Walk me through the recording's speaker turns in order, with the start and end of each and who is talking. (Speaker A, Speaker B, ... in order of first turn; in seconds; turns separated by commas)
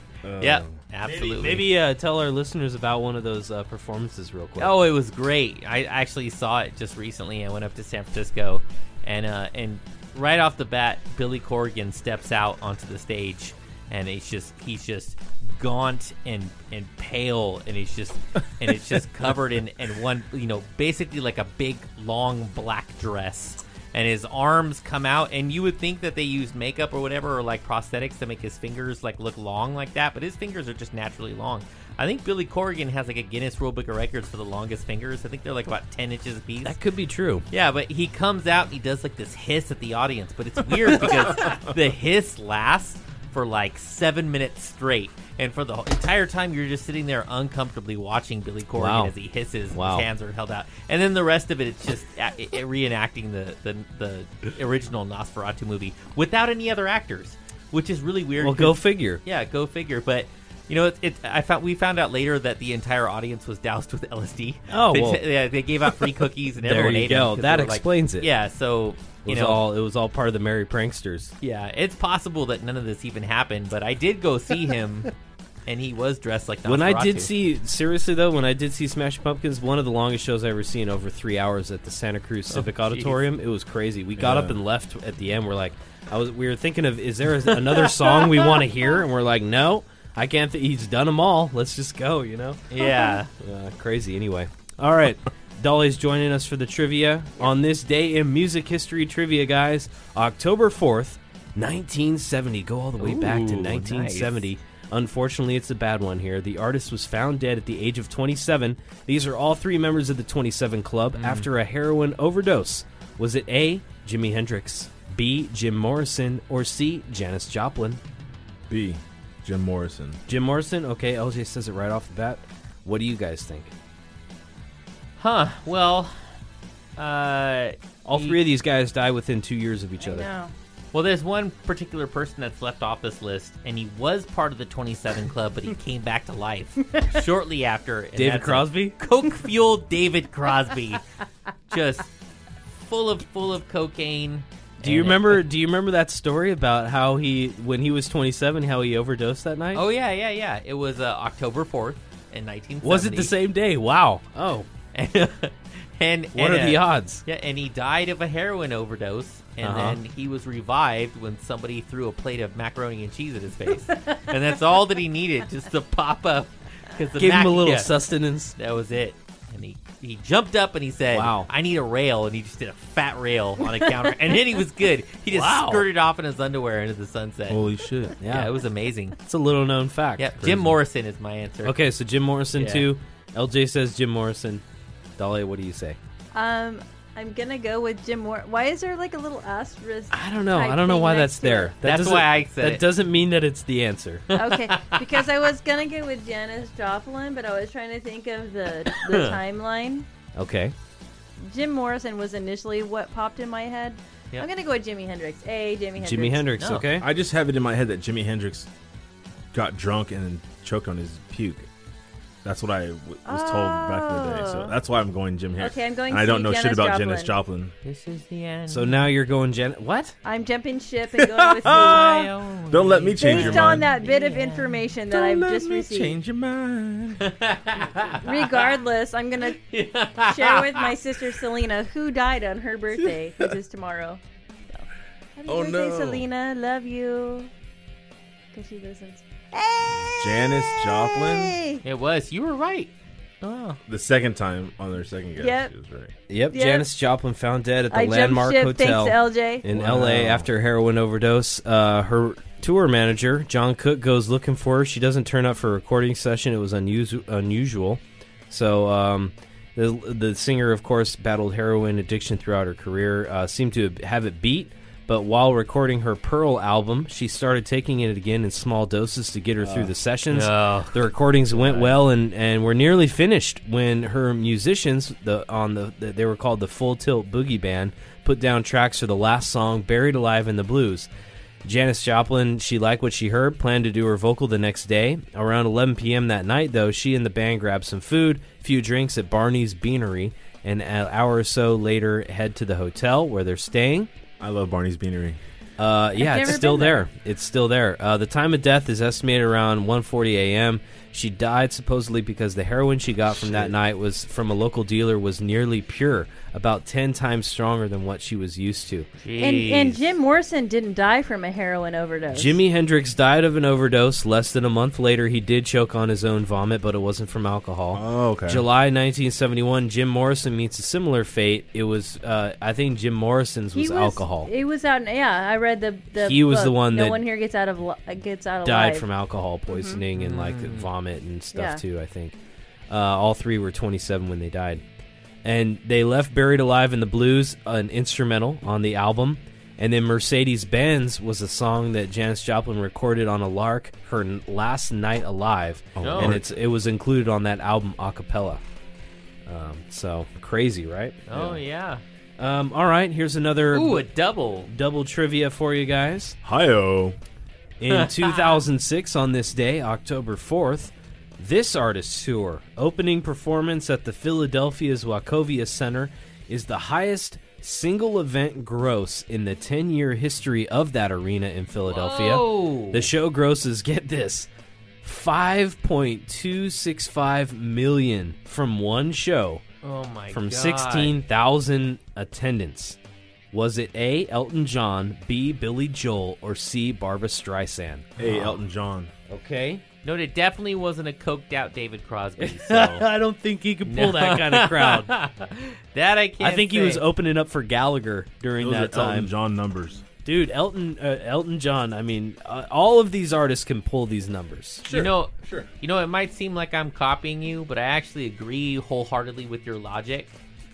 Speaker A: 0.2-0.8, Speaker B: 0.4-1.7, Speaker C: 1.1-4.8, Speaker B: 4.6-36.8, Speaker C: 36.6-37.5, Speaker B: 37.5-69.6, Speaker C: 48.8-49.1, Speaker C: 49.7-50.1, Speaker C: 58.4-59.2, Speaker C: 64.7-65.3, Speaker C: 66.6-68.3, Speaker C: 69.2-71.3, Speaker B: 71.4-75.1, Speaker B: 75.7-77.3, Speaker C: 76.7-118.0, Speaker B: 82.5-83.2, Speaker A: 84.2-84.5, Speaker B: 92.7-93.3, Speaker B: 103.0-104.4, Speaker B: 111.2-111.5, Speaker A: 118.7-120.2, Speaker C: 120.3-123.7, Speaker B: 125.2-126.2, Speaker B: 127.0-128.4, Speaker C: 128.1-130.3, Speaker D: 130.0-130.5, Speaker B: 130.9-141.0, Speaker C: 138.2-139.0, Speaker B: 141.7-142.1, Speaker B: 142.7-145.4, Speaker C: 144.8-149.8, Speaker B: 149.7-153.3, Speaker C: 152.8-154.7, Speaker B: 154.9-167.9, Speaker C: 156.3-157.2, Speaker C: 159.6-160.0, Speaker C: 167.2-168.6, Speaker B: 168.6-177.7, Speaker C: 171.1-171.5, Speaker C: 175.3-175.9, Speaker A: 177.5-178.2, Speaker C: 178.2-178.5, Speaker B: 178.2-179.2, Speaker C: 179.2-180.8, Speaker B: 180.2-181.8, Speaker C: 181.6-184.6, Speaker B: 182.6-182.9, Speaker C: 185.2-186.0, Speaker D: 186.3-191.8, Speaker C: 190.1-194.3, Speaker B: 191.8-192.9, Speaker B: 194.3-195.2, Speaker D: 194.3-200.1, Speaker B: 198.9-199.4, Speaker C: 200.3-200.8, Speaker D: 201.4-206.5, Speaker C: 206.0-207.1, Speaker B: 206.6-206.9, Speaker A: 206.9-208.7, Speaker A: 209.5-211.7, Speaker A: 212.4-217.7, Speaker D: 213.3-214.7, Speaker D: 215.6-217.4, Speaker B: 217.8-219.1, Speaker C: 218.7-220.2, Speaker D: 220.2-222.2, Speaker A: 221.1-223.9, Speaker B: 221.6-224.8, Speaker D: 223.2-226.2, Speaker A: 225.1-227.3, Speaker B: 227.2-228.7, Speaker D: 228.2-229.6, Speaker B: 229.6-230.9, Speaker D: 230.2-237.5, Speaker A: 235.5-236.2, Speaker D: 238.5-241.8, Speaker A: 240.0-241.6, Speaker B: 241.8-243.8, Speaker A: 243.9-246.2, Speaker D: 245.4-245.7, Speaker C: 246.3-281.1, Speaker D: 246.5-246.9, Speaker D: 247.9-249.7, Speaker A: 249.7-250.5, Speaker B: 270.3-271.1, Speaker C: 281.6-294.1, Speaker A: 294.4-295.4, Speaker C: 295.8-309.1, Speaker D: 296.2-297.0, Speaker A: 303.4-303.7, Speaker B: 309.2-310.0, Speaker D: 309.4-312.6, Speaker C: 312.3-324.5, Speaker A: 317.9-318.6, Speaker D: 323.8-329.1, Speaker C: 326.2-327.2, Speaker C: 328.6-332.4, Speaker D: 329.7-330.0, Speaker B: 330.1-330.9, Speaker D: 331.5-331.8, Speaker C: 332.9-334.8, Speaker C: 335.4-348.6, Speaker A: 346.0-346.4, Speaker B: 346.0-346.4, Speaker C: 349.5-351.2, Speaker B: 351.3-352.0, Speaker A: 351.3-351.6, Speaker C: 352.4-354.1, Speaker B: 353.7-354.7, Speaker C: 354.7-356.4, Speaker A: 356.4-357.2, Speaker C: 357.8-374.5, Speaker B: 357.9-358.6, Speaker B: 371.9-373.1, Speaker C: 375.0-379.6, Speaker B: 379.8-381.2, Speaker C: 380.3-383.0, Speaker C: 383.5-388.1, Speaker A: 388.2-389.1, Speaker B: 388.2-388.6, Speaker C: 389.3-389.8, Speaker B: 390.0-393.1, Speaker C: 392.4-395.1, Speaker B: 393.9-397.0, Speaker C: 396.4-399.3, Speaker A: 398.6-400.1, Speaker C: 400.2-404.9, Speaker A: 404.8-405.7, Speaker B: 404.9-410.4